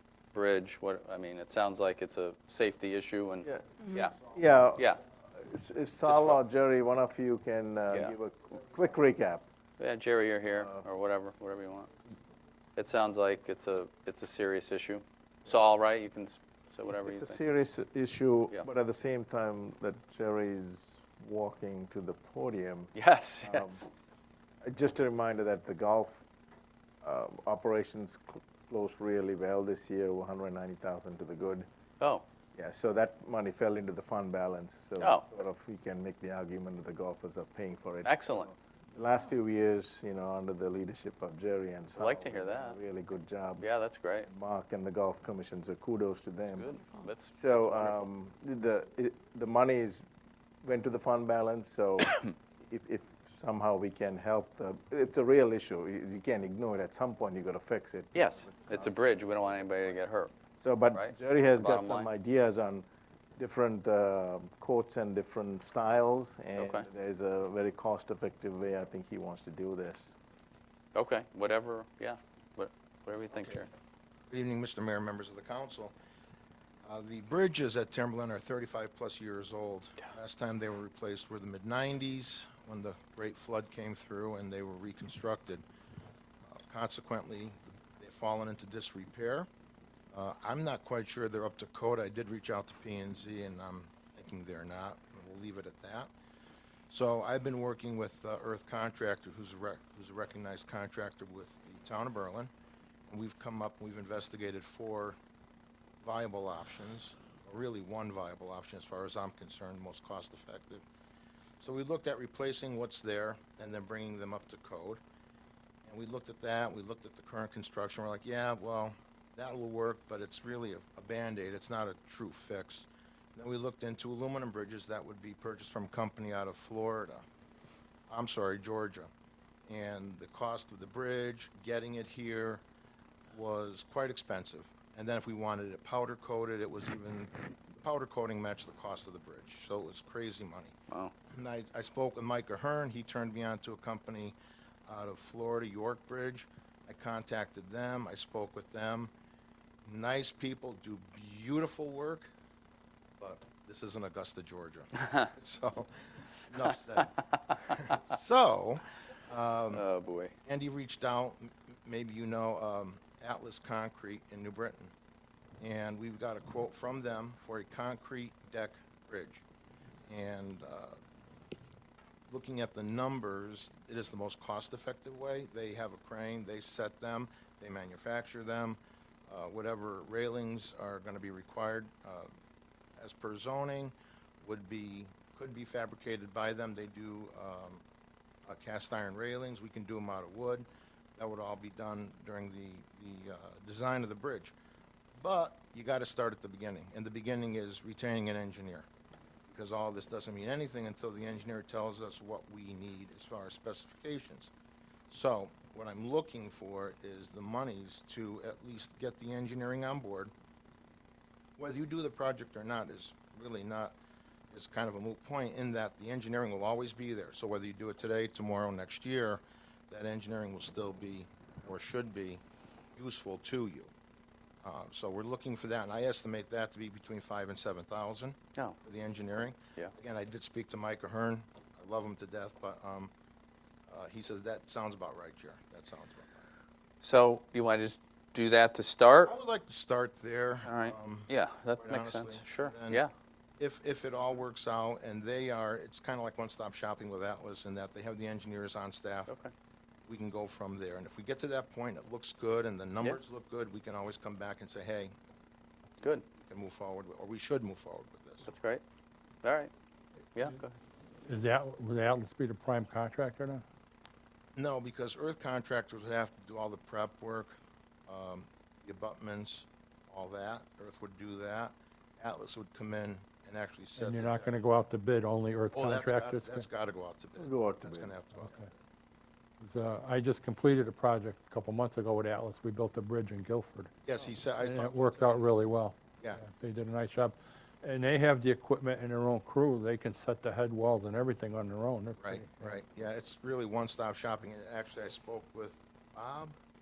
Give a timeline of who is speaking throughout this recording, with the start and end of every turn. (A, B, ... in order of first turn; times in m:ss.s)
0:00.3-0:04.2 A
0:03.4-0:09.5 B
0:04.8-0:05.0 A
0:06.0-0:06.4 A
0:09.8-0:11.9 A
0:12.8-0:17.4 A
0:17.0-0:23.8 B
0:23.0-0:23.9 A
0:24.6-0:26.2 B
0:27.0-0:31.7 B
0:32.0-0:32.2 A
0:32.6-0:43.7 B
0:35.0-0:35.3 A
0:38.0-0:38.5 A
0:42.0-0:42.8 A
0:43.6-0:44.3 A
0:44.2-0:46.7 B
0:46.5-0:48.1 A
0:47.3-0:50.0 B
0:50.6-0:59.3 B
0:58.1-1:00.3 A
1:00.6-1:02.9 B
1:00.9-1:02.1 A
1:03.4-1:10.0 B
1:06.6-1:06.9 A
1:10.9-1:13.7 A
1:14.3-1:15.9 C
1:16.8-1:25.6 C
1:26.6-1:29.5 C
1:30.1-1:36.1 C
1:36.9-1:42.5 C
1:43.1-1:45.2 C
1:46.0-1:50.8 C
1:51.6-1:55.0 C
1:55.8-2:07.2 C
2:08.1-2:09.1 C
2:09.7-2:12.6 C
2:13.3-2:20.8 C
2:21.3-2:24.4 C
2:24.9-2:29.1 C
2:29.8-2:32.3 C
2:33.2-2:39.8 C
2:39.7-2:40.3 A
2:40.5-2:44.9 C
2:45.6-2:49.4 C
2:50.1-2:51.0 C
2:52.3-3:02.3 C
3:03.0-3:07.8 C
3:08.5-3:14.6 C
3:15.2-3:18.9 C
3:19.5-3:24.5 C
3:25.1-3:30.3 C
3:31.6-3:34.0 C
3:34.5-3:42.4 C
3:43.0-3:43.9 C
3:44.6-3:53.1 C
3:53.9-3:56.4 C
3:57.0-3:59.3 A
3:59.2-4:03.0 C
4:00.6-4:03.1 A
4:03.6-4:09.3 C
4:09.3-4:09.5 A
4:10.1-4:15.2 C
4:16.4-4:18.5 C
4:18.4-4:18.8 A
4:19.4-4:19.7 A
4:20.4-4:20.8 A
4:21.3-4:23.6 D
4:24.6-4:27.5 C
4:28.1-4:34.5 C
4:34.0-4:36.7 D
4:35.7-4:38.8 C
4:37.4-4:38.2 B
4:39.6-4:43.9 D
4:44.0-4:45.6 C
4:44.6-4:52.8 D
4:52.2-4:56.6 C